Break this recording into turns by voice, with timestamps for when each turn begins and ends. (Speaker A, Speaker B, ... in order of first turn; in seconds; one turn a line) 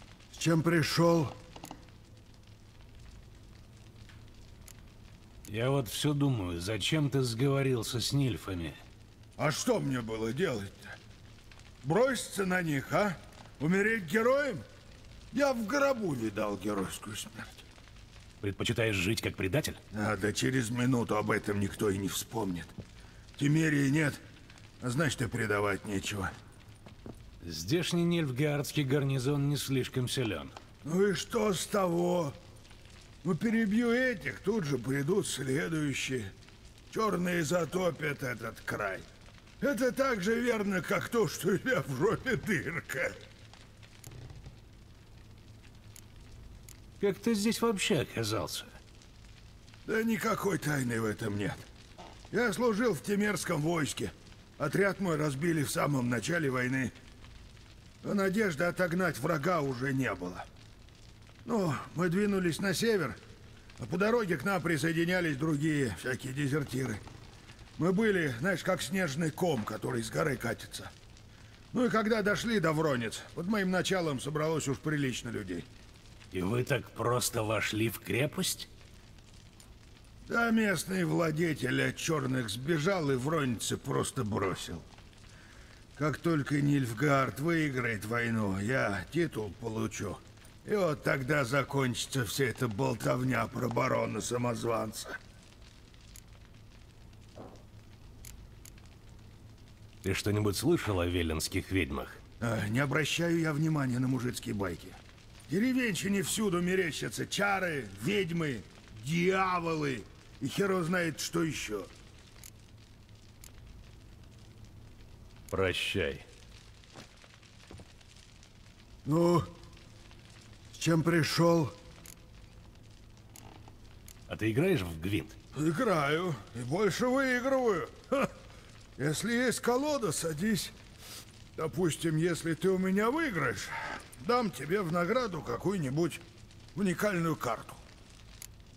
Speaker A: 0.3-1.4
Speaker B: 5.5-8.8
Speaker A: 9.4-10.9
Speaker A: 11.8-14.7
Speaker A: 15.3-17.7
Speaker B: 18.4-19.8
Speaker A: 19.9-22.8
Speaker A: 23.4-24.2
Speaker A: 24.8-26.3
Speaker B: 27.4-30.5
Speaker A: 30.8-32.4
Speaker A: 33.2-36.3
Speaker A: 36.9-39.1
Speaker A: 39.6-43.2
Speaker B: 47.0-48.7
Speaker A: 49.9-51.6
Speaker A: 52.3-56.9
Speaker A: 58.0-60.5
Speaker A: 61.5-63.2
Speaker A: 63.8-67.0
Speaker A: 67.8-70.9
Speaker A: 71.7-75.7
Speaker B: 76.3-78.7
Speaker A: 80.3-84.9
Speaker A: 86.0-95.2
Speaker B: 100.0-102.2
Speaker A: 102.4-111.9
Speaker B: 115.5-116.2
Speaker A: 119.0-119.5
Speaker A: 120.7-121.8
Speaker B: 124.3-125.4
Speaker A: 125.5-128.3
Speaker A: 129.0-130.8
Speaker A: 131.6-136.2
Speaker A: 136.8-137.8